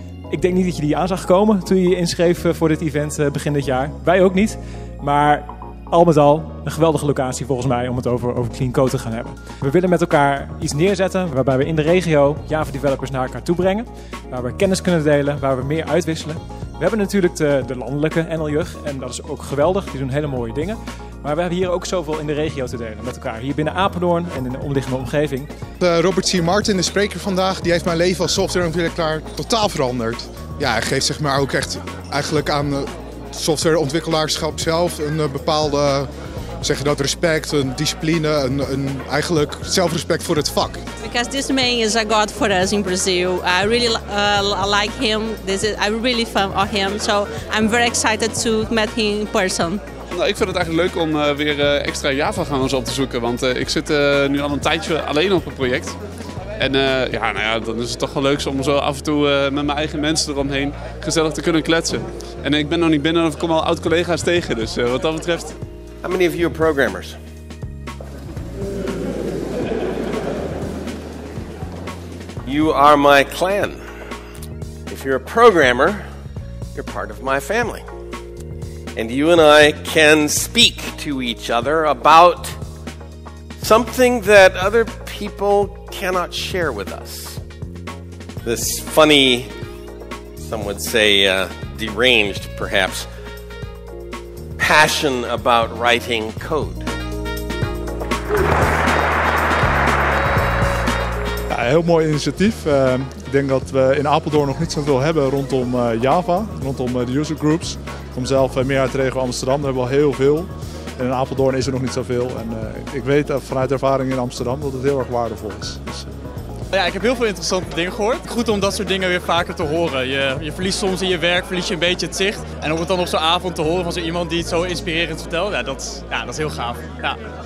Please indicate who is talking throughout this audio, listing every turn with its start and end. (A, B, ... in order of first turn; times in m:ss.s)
0:00.3-0:25.5 A
0:25.8-0:36.1 B
0:36.6-0:40.8 B
0:41.0-0:49.8 C
0:50.1-0:56.0 D
0:56.6-1:05.5 D
1:06.0-1:07.2 E
1:12.4-1:13.8 E
1:14.9-1:16.1 E
1:16.7-1:17.9 E
1:18.9-1:22.6 E
1:23.6-1:27.4 E
1:28.4-1:29.5 E
1:30.4-1:33.1 E
1:34.6-1:36.9 E
1:41.5-1:56.1 F
1:56.7-2:07.2 G